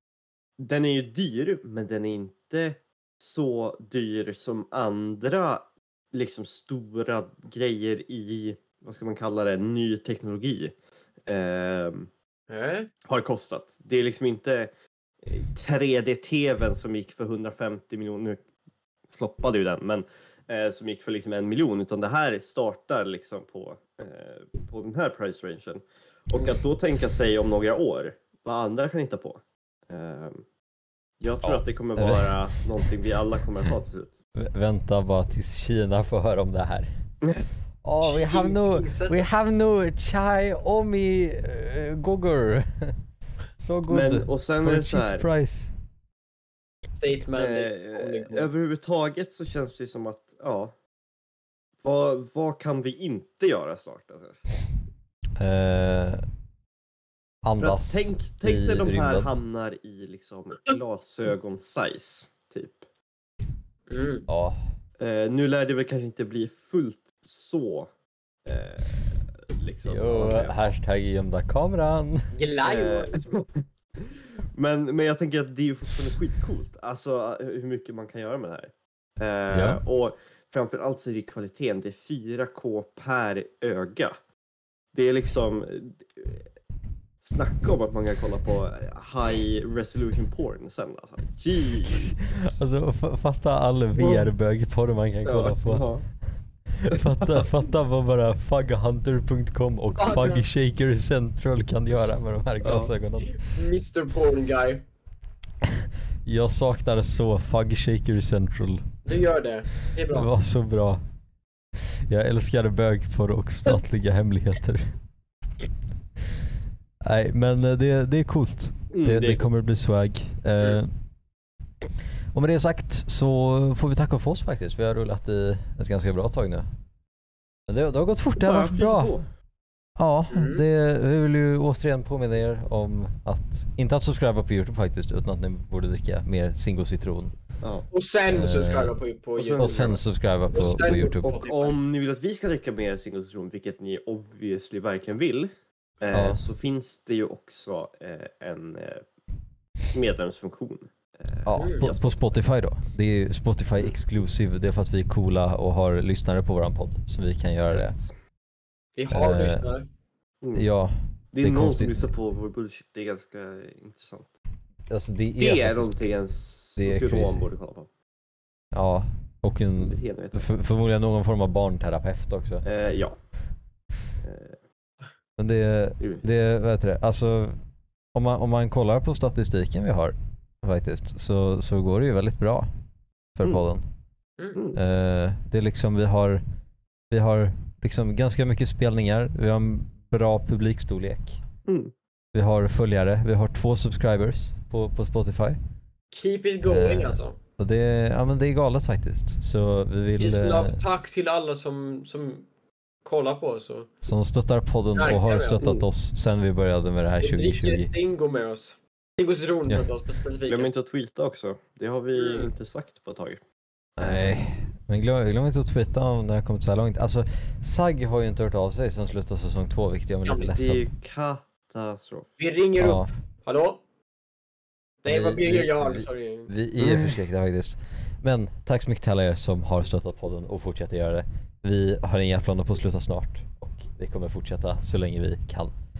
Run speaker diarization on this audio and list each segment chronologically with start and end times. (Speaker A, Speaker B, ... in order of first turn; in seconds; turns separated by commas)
Speaker A: 0.6-10.7, Speaker A: 11.3-12.1, Speaker B: 12.5-12.9, Speaker A: 13.1-14.7, Speaker A: 15.2-18.4, Speaker A: 19.1-30.4, Speaker A: 31.2-34.1, Speaker C: 31.4-32.9, Speaker C: 34.4-36.9, Speaker C: 37.8-42.9, Speaker B: 38.0-39.2, Speaker C: 43.6-45.7, Speaker A: 43.9-45.2, Speaker B: 47.0-48.5, Speaker A: 47.4-50.7, Speaker A: 51.8-54.4, Speaker C: 55.4-56.2, Speaker C: 57.4-59.3, Speaker A: 57.6-62.9, Speaker B: 63.9-64.3, Speaker C: 64.3-64.6, Speaker A: 65.0-67.9, Speaker A: 68.4-70.6, Speaker C: 69.8-72.2, Speaker B: 72.3-73.2, Speaker A: 72.6-84.1, Speaker C: 79.5-79.8, Speaker A: 84.9-86.5, Speaker A: 87.2-92.6, Speaker C: 91.9-95.9, Speaker A: 94.0-94.3, Speaker A: 95.2-96.0, Speaker C: 96.7-103.3, Speaker A: 96.9-97.4, Speaker B: 100.0-100.4, Speaker A: 102.6-102.9, Speaker B: 103.3-104.8, Speaker C: 105.6-109.0, Speaker B: 109.0-110.3, Speaker C: 110.1-111.0, Speaker C: 112.1-114.9, Speaker C: 117.0-120.9, Speaker A: 118.9-119.5, Speaker C: 122.3-126.7, Speaker C: 127.7-129.1, Speaker A: 128.4-129.2, Speaker C: 130.0-137.3, Speaker B: 130.3-130.6, Speaker A: 137.6-137.9, Speaker B: 137.9-140.0, Speaker C: 138.3-138.9, Speaker A: 139.4-140.0, Speaker C: 139.6-141.3, Speaker B: 140.5-141.8, Speaker A: 141.0-149.0, Speaker C: 146.1-146.4, Speaker A: 149.9-152.4, Speaker C: 151.4-158.0, Speaker B: 151.5-151.9, Speaker B: 158.9-159.9, Speaker C: 159.1-159.7, Speaker C: 160.5-162.1, Speaker A: 161.3-164.3, Speaker C: 164.9-166.0, Speaker A: 165.4-167.9, Speaker C: 166.8-167.5, Speaker C: 168.7-172.6, Speaker A: 169.8-170.5, Speaker A: 172.6-173.1, Speaker A: 174.2-174.6, Speaker C: 175.4-177.6, Speaker A: 176.0-176.4, Speaker C: 178.1-182.7, Speaker C: 183.4-183.8, Speaker A: 184.5-184.8, Speaker C: 184.7-186.4, Speaker C: 187.1-191.4, Speaker A: 191.7-191.9, Speaker C: 192.3-195.6, Speaker B: 196.1-197.4, Speaker C: 196.7-200.8, Speaker B: 200.2-202.5, Speaker B: 203.0-203.9, Speaker C: 204.0-207.9, Speaker B: 204.9-205.8, Speaker B: 207.2-210.7, Speaker A: 210.5-213.4, Speaker B: 212.1-212.5, Speaker A: 214.0-214.4, Speaker C: 214.0-220.8, Speaker B: 220.2-220.5, Speaker A: 220.6-222.3, Speaker B: 222.4-223.8, Speaker C: 222.8-223.1, Speaker B: 225.0-226.5, Speaker C: 225.1-235.7, Speaker A: 226.8-227.2